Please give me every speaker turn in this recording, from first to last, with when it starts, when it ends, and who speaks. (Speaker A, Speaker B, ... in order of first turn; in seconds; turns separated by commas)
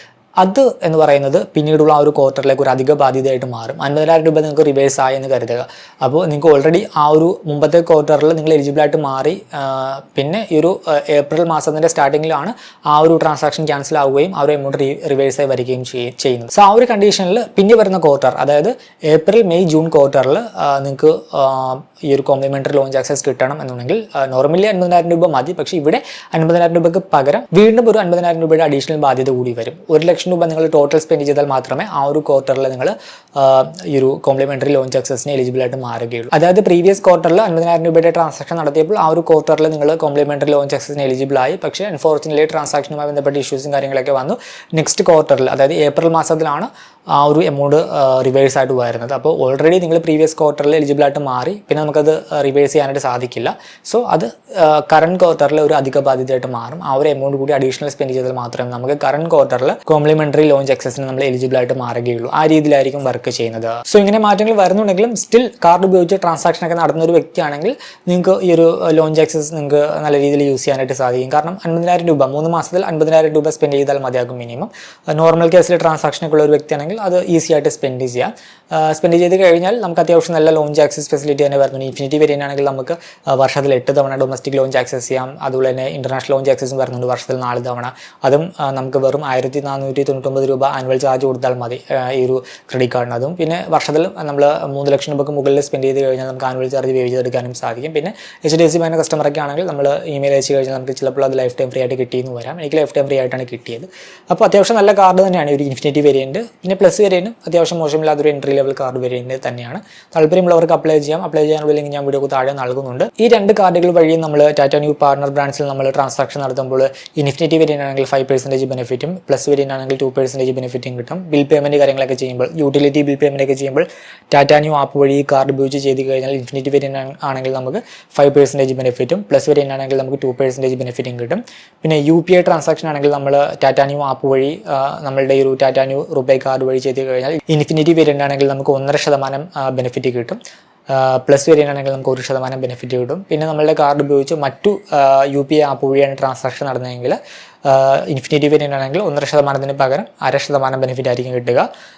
Speaker A: 0.4-151.7